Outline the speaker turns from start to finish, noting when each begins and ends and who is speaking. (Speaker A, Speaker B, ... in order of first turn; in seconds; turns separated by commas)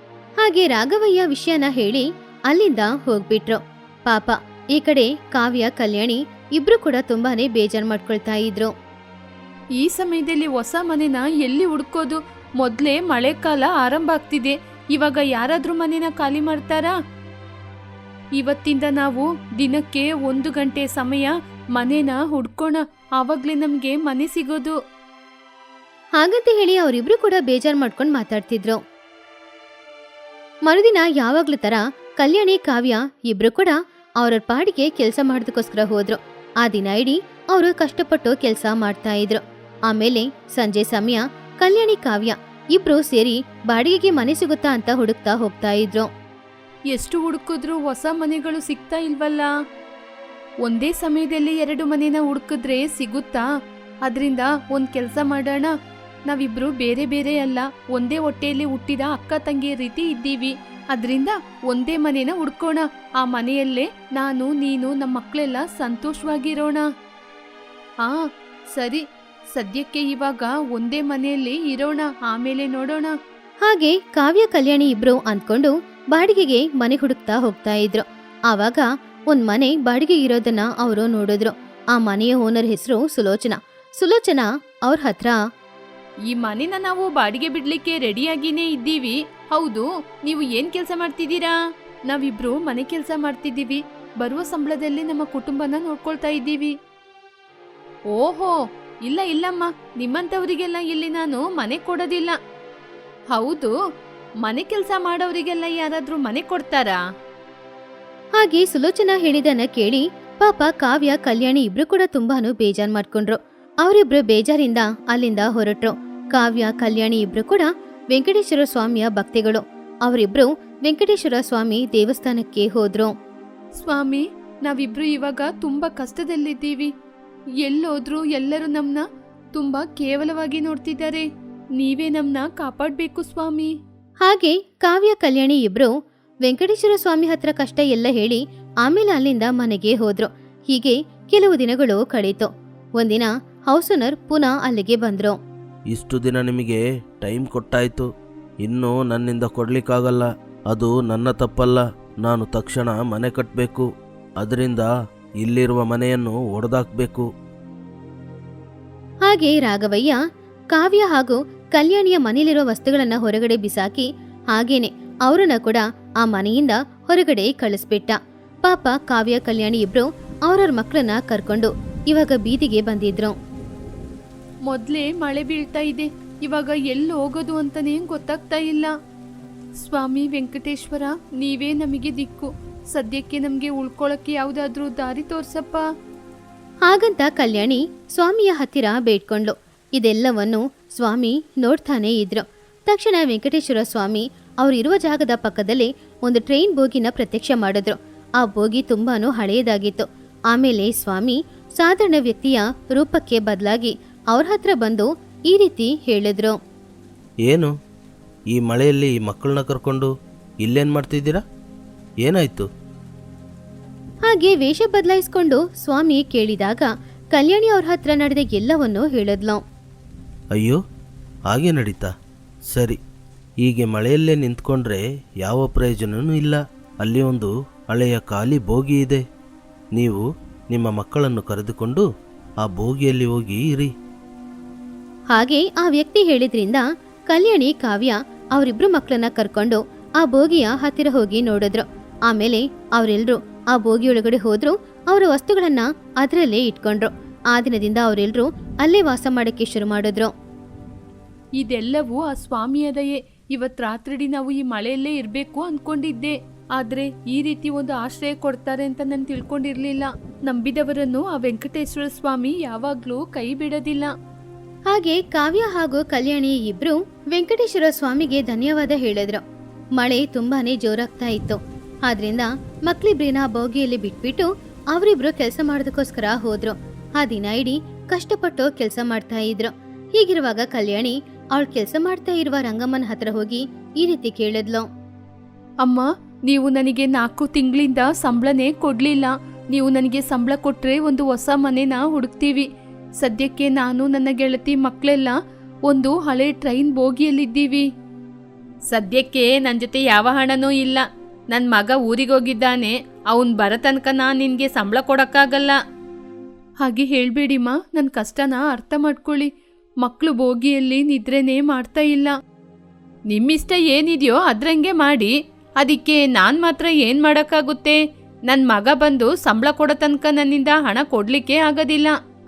Speaker A: 0.4-8.7, Speaker B: 9.8-16.9, Speaker B: 18.4-24.8, Speaker A: 26.2-28.8, Speaker A: 30.6-46.1, Speaker B: 46.9-49.5, Speaker B: 50.6-53.4, Speaker B: 54.0-55.7, Speaker B: 56.3-66.8, Speaker B: 68.0-73.1, Speaker A: 73.6-85.4, Speaker B: 86.3-91.5, Speaker B: 92.1-96.7, Speaker B: 98.1-98.5, Speaker B: 99.0-102.4, Speaker B: 103.3-103.7, Speaker B: 104.4-107.0, Speaker A: 108.4-123.1, Speaker B: 123.7-126.9, Speaker B: 127.6-131.2, Speaker B: 131.8-133.7, Speaker A: 134.2-135.9, Speaker A: 136.4-145.4, Speaker C: 145.9-148.1, Speaker C: 148.6-153.9, Speaker C: 154.4-154.9, Speaker C: 155.4-157.2, Speaker A: 159.3-160.2, Speaker A: 160.7-173.3, Speaker B: 174.7-178.9, Speaker B: 179.8-185.8, Speaker A: 186.8-206.6, Speaker C: 207.4-207.7, Speaker C: 208.5-210.1, Speaker C: 210.6-211.4, Speaker C: 212.2-212.7, Speaker A: 214.3-219.6, Speaker C: 220.5-220.8, Speaker C: 221.5-222.1, Speaker C: 222.7-223.0, Speaker C: 223.6-229.2, Speaker C: 229.9-232.0, Speaker C: 232.6-233.9, Speaker A: 235.3-250.3, Speaker B: 251.6-264.1, Speaker A: 264.9-269.4, Speaker A: 270.0-284.9, Speaker B: 285.8-292.7, Speaker B: 293.2-295.4, Speaker B: 295.9-297.8, Speaker B: 298.9-305.8, Speaker B: 306.8-309.5, Speaker B: 310.0-312.3, Speaker B: 313.3-322.1